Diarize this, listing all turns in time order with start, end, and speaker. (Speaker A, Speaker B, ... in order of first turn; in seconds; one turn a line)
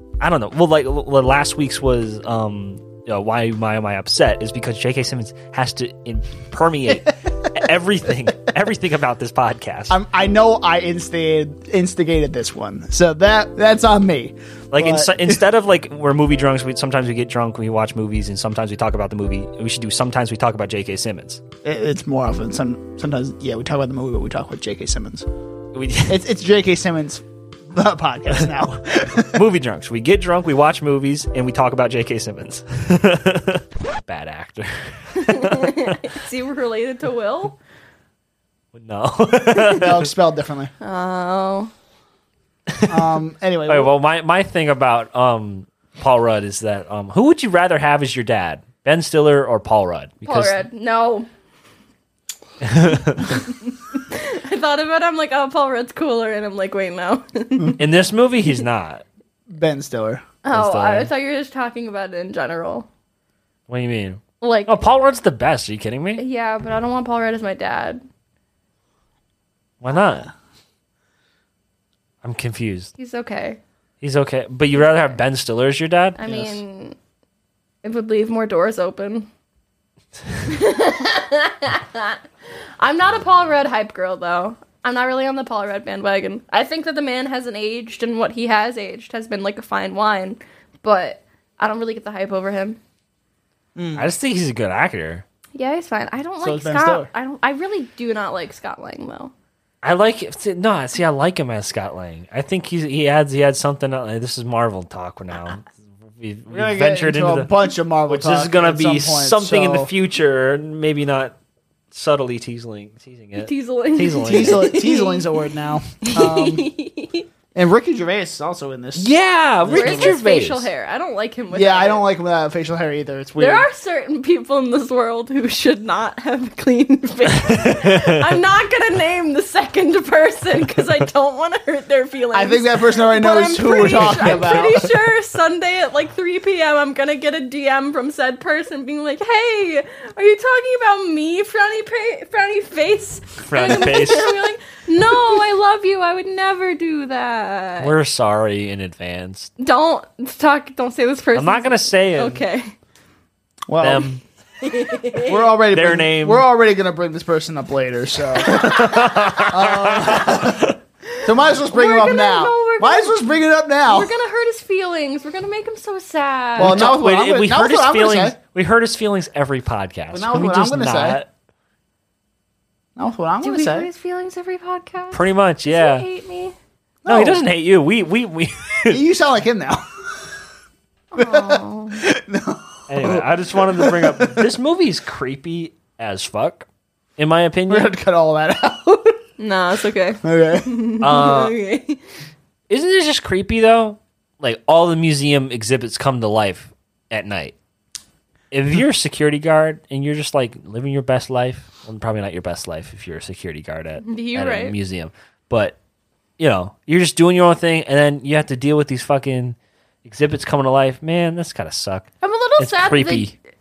Speaker A: 0.2-9.9
Speaker B: 9.9-15.4
Speaker A: 14.7-21.4
Speaker B: 21.6-25.2
Speaker A: 25.7-26.2
Speaker B: 26.1-29.4
Speaker A: 29.2-36.0
Speaker C: 35.1-37.6
Speaker A: 38.7-40.1
Speaker B: 39.7-40.7
Speaker C: 40.8-41.7
Speaker A: 42.7-43.0
Speaker B: 42.9-43.9
Speaker A: 43.7-50.6
Speaker C: 50.2-51.3
Speaker A: 52.6-53.4
Speaker C: 53.2-57.8
Speaker A: 57.8-59.0
Speaker B: 59.5-60.2
Speaker C: 60.4-62.9
Speaker A: 60.5-61.1
Speaker A: 63.7-66.2
Speaker C: 64.4-64.8
Speaker C: 66.2-68.0
Speaker A: 69.8-70.3
Speaker A: 72.2-72.9
Speaker C: 73.0-73.6
Speaker A: 74.0-76.4
Speaker C: 76.2-77.0
Speaker C: 77.8-79.3
Speaker C: 80.4-82.2
Speaker C: 82.8-92.8
Speaker B: 93.8-94.1
Speaker A: 94.0-95.2
Speaker C: 95.5-99.3
Speaker B: 96.4-97.1
Speaker A: 99.8-107.5
Speaker B: 106.5-109.9
Speaker A: 108.0-111.3
Speaker A: 111.9-114.7
Speaker C: 113.4-115.3
Speaker B: 114.2-116.7
Speaker C: 116.0-117.3
Speaker B: 117.5-120.2
Speaker A: 119.0-120.7
Speaker C: 119.7-122.0
Speaker B: 121.5-123.7
Speaker C: 123.4-147.9
Speaker A: 127.5-128.1
Speaker B: 132.3-134.9
Speaker A: 133.9-134.6
Speaker A: 143.5-144.5
Speaker A: 147.8-149.5
Speaker C: 149.6-152.7
Speaker A: 151.3-152.4
Speaker B: 153.7-154.1
Speaker A: 153.8-154.2
Speaker C: 154.6-155.4
Speaker B: 155.2-164.1
Speaker A: 155.7-156.4
Speaker A: 158.4-160.8
Speaker C: 158.6-159.2
Speaker C: 161.7-163.3
Speaker C: 163.8-167.0
Speaker B: 166.6-168.4
Speaker A: 166.6-171.3
Speaker B: 170.1-171.2
Speaker B: 172.9-173.9
Speaker C: 173.4-176.5
Speaker A: 175.1-176.1
Speaker B: 177.0-177.5
Speaker A: 177.1-179.0
Speaker B: 178.9-179.8
Speaker C: 181.1-182.0
Speaker B: 181.2-184.6
Speaker A: 182.9-186.7
Speaker A: 187.2-187.9
Speaker B: 187.7-189.2
Speaker C: 189.4-192.0
Speaker B: 190.2-190.9
Speaker A: 191.0-191.6
Speaker A: 192.7-197.6
Speaker A: 198.5-205.7
Speaker C: 204.0-204.7
Speaker A: 206.4-213.3
Speaker C: 212.2-213.3